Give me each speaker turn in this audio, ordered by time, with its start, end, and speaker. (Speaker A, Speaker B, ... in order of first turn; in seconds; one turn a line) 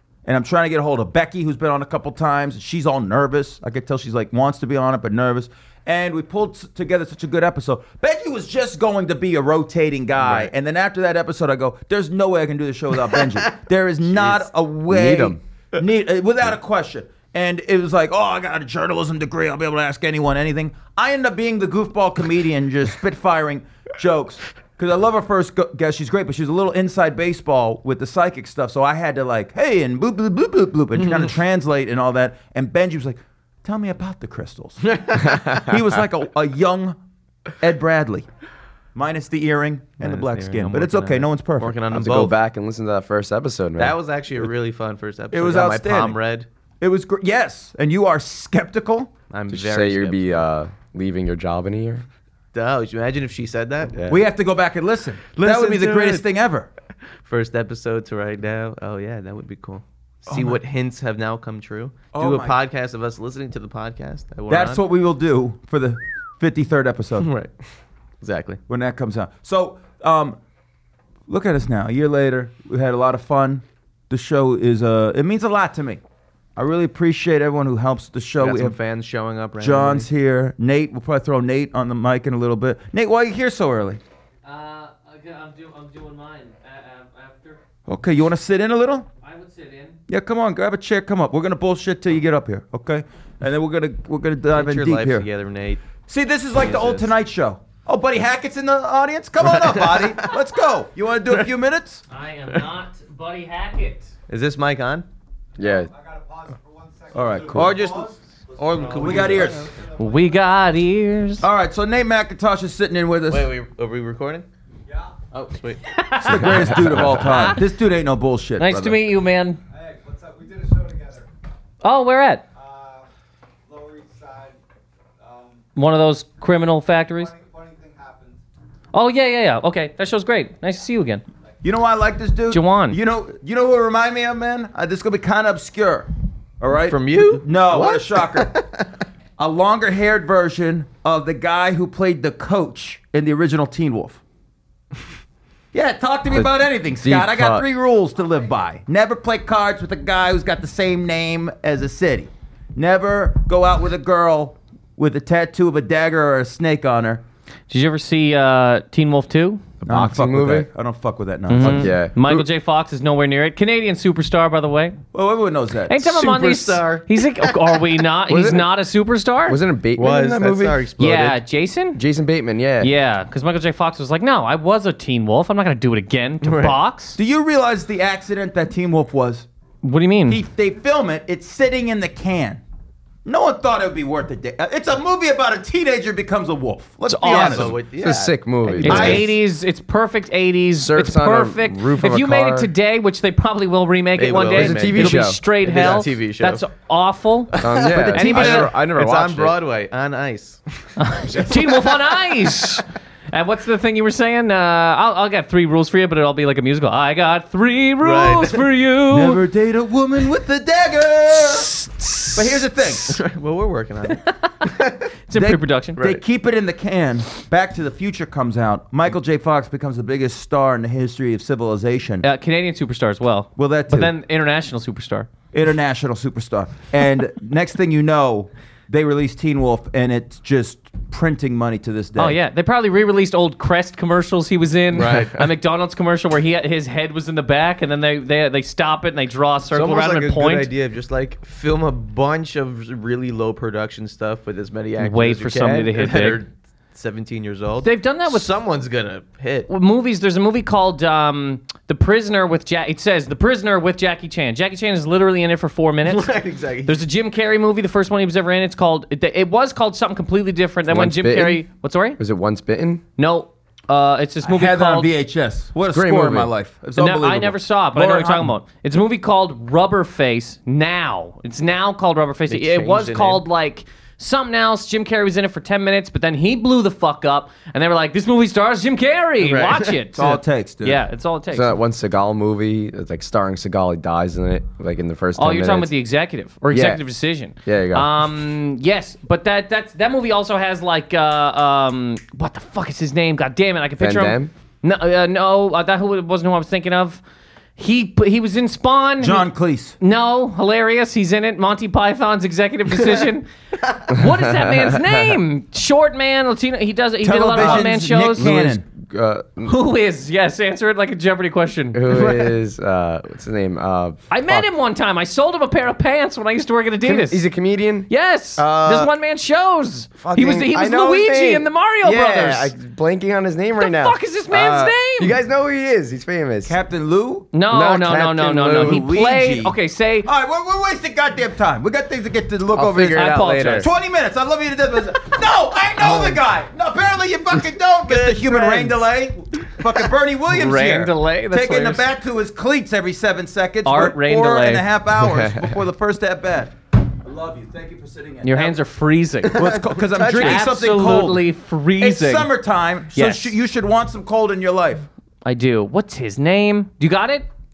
Speaker A: 0.3-37.0
Speaker B: 10.2-10.5
Speaker C: 14.9-15.4
Speaker B: 34.9-35.7
Speaker A: 37.6-38.3
Speaker A: 39.0-41.8
Speaker B: 40.0-42.4
Speaker C: 41.9-44.0
Speaker B: 43.8-46.5
Speaker A: 45.3-46.2
Speaker A: 46.8-49.1
Speaker B: 49.3-50.4
Speaker C: 49.5-52.1
Speaker B: 52.5-54.0
Speaker C: 54.0-54.2
Speaker A: 54.1-56.7
Speaker B: 55.4-56.2
Speaker B: 57.2-64.8
Speaker A: 60.3-60.6
Speaker A: 62.1-62.6
Speaker A: 64.5-67.3
Speaker B: 67.2-67.5
Speaker B: 68.2-68.6
Speaker A: 68.7-70.4
Speaker A: 71.3-76.0
Speaker A: 76.6-78.8
Speaker B: 78.4-80.1
Speaker A: 79.6-84.0
Speaker D: 84.4-87.6
Speaker A: 87.9-89.1
Speaker D: 89.2-90.0
Speaker A: 90.1-95.3
Speaker B: 94.5-95.8
Speaker A: 96.1-102.0
Speaker B: 96.5-97.1
Speaker B: 99.5-100.3
Speaker D: 102.1-104.1
Speaker B: 104.3-105.1
Speaker C: 105.6-105.9
Speaker E: 106.1-106.6
Speaker A: 107.1-108.0
Speaker B: 107.5-109.8
Speaker A: 109.0-109.7
Speaker D: 109.9-111.5
Speaker A: 111.4-113.5
Speaker B: 113.3-114.5
Speaker B: 115.3-117.6
Speaker D: 115.9-117.6
Speaker A: 116.2-119.0
Speaker D: 118.6-119.6
Speaker E: 120.1-121.2
Speaker D: 121.8-122.5
Speaker E: 123.7-124.5
Speaker D: 125.8-127.4
Speaker E: 127.4-128.2
Speaker D: 128.9-131.2
Speaker A: 131.6-136.1
Speaker D: 132.5-133.0
Speaker A: 136.6-138.6
Speaker B: 136.9-138.8
Speaker A: 139.4-144.2
Speaker A: 145.7-157.2
Speaker C: 147.0-147.7
Speaker D: 157.7-159.7
Speaker A: 159.8-161.9
Speaker C: 159.9-160.7
Speaker D: 161.5-165.0
Speaker C: 161.6-162.5
Speaker A: 165.1-166.0
Speaker D: 165.9-169.6
Speaker B: 166.0-167.8
Speaker C: 168.3-168.7
Speaker C: 169.5-170.8
Speaker B: 170.0-171.4
Speaker D: 171.0-172.0
Speaker C: 171.9-172.9
Speaker D: 172.8-177.2
Speaker B: 176.4-176.8
Speaker A: 177.2-179.5
Speaker D: 179.8-180.4
Speaker A: 180.3-182.6
Speaker A: 183.2-187.8
Speaker D: 187.1-187.7
Speaker B: 187.2-189.2
Speaker C: 188.0-189.3
Speaker D: 188.8-198.7
Speaker A: 188.8-189.2
Speaker C: 190.8-192.7
Speaker B: 194.2-196.6
Speaker C: 194.5-195.4
Speaker B: 197.6-202.5
Speaker C: 197.6-199.6
Speaker A: 197.9-198.6
Speaker D: 201.0-209.4
Speaker B: 208.0-208.6
Speaker A: 209.1-213.2
Speaker D: 211.8-212.4
Speaker B: 213.0-215.1
Speaker D: 215.3-216.0
Speaker A: 215.3-222.2
Speaker D: 222.2-225.3
Speaker A: 223.6-224.1
Speaker A: 225.5-232.4
Speaker D: 232.2-240.7
Speaker B: 235.0-235.3
Speaker B: 239.7-249.7
Speaker D: 245.0-246.4
Speaker D: 247.8-248.5
Speaker D: 249.7-256.3
Speaker B: 256.1-257.0
Speaker D: 256.9-262.2
Speaker C: 260.9-261.6
Speaker C: 262.2-263.0
Speaker D: 263.2-265.1
Speaker A: 264.4-268.5
Speaker C: 265.9-266.5
Speaker D: 267.0-281.8
Speaker B: 272.5-273.4
Speaker B: 279.4-279.9
Speaker A: 280.1-281.0
Speaker C: 281.5-285.9
Speaker D: 285.4-297.2
Speaker C: 286.7-287.0
Speaker C: 287.6-288.1
Speaker C: 294.0-294.5
Speaker D: 297.8-299.5
Speaker A: 299.2-300.0
Speaker D: 300.0-308.5
Speaker C: 304.2-305.1
Speaker A: 307.2-308.8
Speaker C: 308.4-309.7
Speaker D: 309.6-312.6
Speaker C: 311.9-314.7
Speaker D: 314.3-317.4
Speaker C: 317.0-319.1
Speaker D: 318.1-322.7
Speaker C: 320.2-326.8
Speaker D: 323.8-325.4
Speaker A: 326.7-327.5
Speaker D: 327.5-330.3
Speaker C: 327.7-329.0
Speaker A: 328.7-348.8
Speaker C: 332.7-333.9
Speaker D: 333.0-333.9
Speaker B: 336.0-336.4
Speaker B: 338.1-339.0
Speaker D: 340.5-342.1
Speaker D: 343.9-344.9
Speaker C: 345.2-345.7
Speaker D: 348.4-349.7
Speaker B: 349.4-350.7
Speaker A: 349.4-351.5
Speaker D: 350.3-352.5
Speaker A: 352.0-355.1
Speaker D: 353.1-353.6
Speaker D: 355.4-357.5